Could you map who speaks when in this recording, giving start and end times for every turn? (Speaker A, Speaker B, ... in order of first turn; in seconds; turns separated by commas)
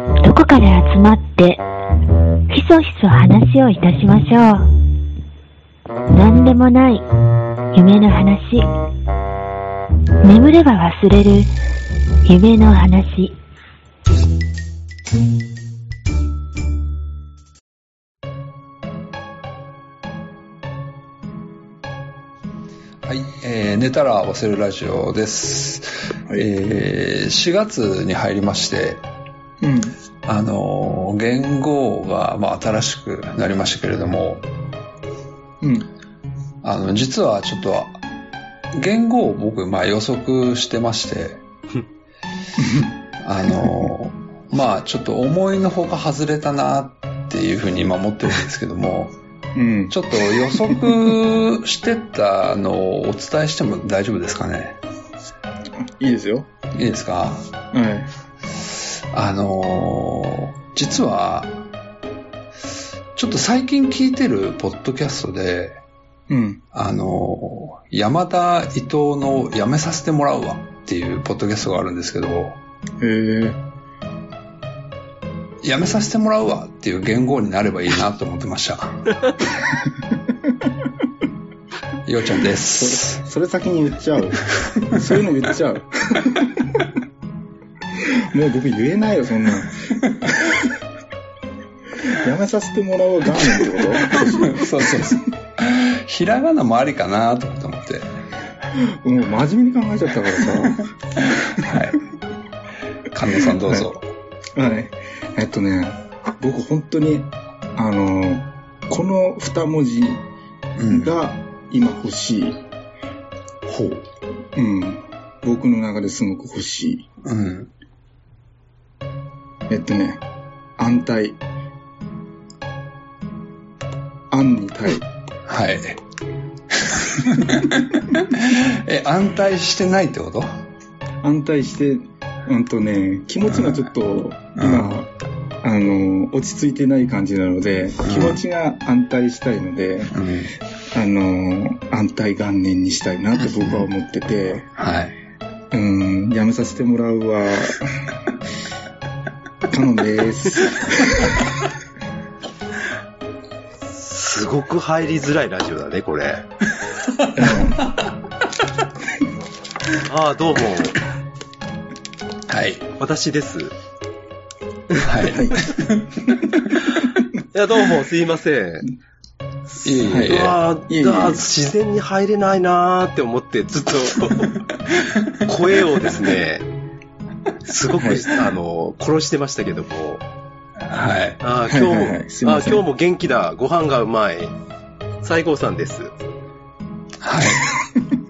Speaker A: 0.2-1.6, Speaker A: 2.5-4.7, Speaker A: 6.1-7.1, Speaker A: 7.7-8.7, Speaker A: 10.2-11.5, Speaker A: 12.2-13.3, Speaker B: 23.0-29.0, Speaker C: 29.6-29.9, Speaker B: 30.2-34.5, Speaker C: 35.6-35.9, Speaker B: 36.6-38.0, Speaker B: 38.7-41.4, Speaker C: 42.6-42.9, Speaker B: 43.2-49.2, Speaker C: 49.5-51.0, Speaker B: 49.9-54.8, Speaker C: 55.8-56.5, Speaker B: 56.7-57.5, Speaker C: 57.7-58.1, Speaker B: 59.1-61.6, Speaker B: 63.1-65.8, Speaker C: 66.3-66.6, Speaker B: 66.7-72.6, Speaker C: 73.0-73.6, Speaker B: 75.6-79.2, Speaker B: 82.0-83.2, Speaker C: 82.7-86.8, Speaker C: 88.0-90.7, Speaker C: 92.0-95.2, Speaker B: 93.4-98.1, Speaker C: 98.7-101.9, Speaker B: 101.3-102.0, Speaker B: 103.1-104.1, Speaker C: 103.4-103.9, Speaker C: 104.5-110.2, Speaker B: 110.8-111.2, Speaker C: 110.9-112.6, Speaker B: 113.7-114.1, Speaker C: 114.5-117.1, Speaker B: 117.2-117.7, Speaker C: 119.7-120.2, Speaker C: 120.8-121.4, Speaker C: 124.3-125.1, Speaker B: 125.5-126.0, Speaker B: 126.7-130.5, Speaker C: 131.2-135.1, Speaker B: 133.4-133.9, Speaker B: 134.6-134.9, Speaker C: 135.6-140.1, Speaker B: 138.0-138.4, Speaker B: 140.1-140.5, Speaker C: 140.9-144.7, Speaker B: 143.4-143.9, Speaker B: 144.8-145.1, Speaker C: 145.7-147.8, Speaker C: 149.7-151.3, Speaker D: 153.9-156.4, Speaker B: 157.0-158.1, Speaker C: 157.3-157.8, Speaker D: 160.0-161.0, Speaker B: 162.5-162.8, Speaker D: 163.0-163.7, Speaker B: 165.0-166.9, Speaker C: 165.2-165.7, Speaker D: 167.5-168.9, Speaker D: 169.7-174.6, Speaker B: 169.8-170.6, Speaker C: 170.1-171.4, Speaker B: 174.4-176.1, Speaker D: 175.4-176.7, Speaker D: 177.6-180.2, Speaker C: 177.9-178.3, Speaker B: 180.8-181.4, Speaker D: 181.4-184.5, Speaker C: 181.7-182.9, Speaker D: 185.2-186.1, Speaker B: 187.2-187.7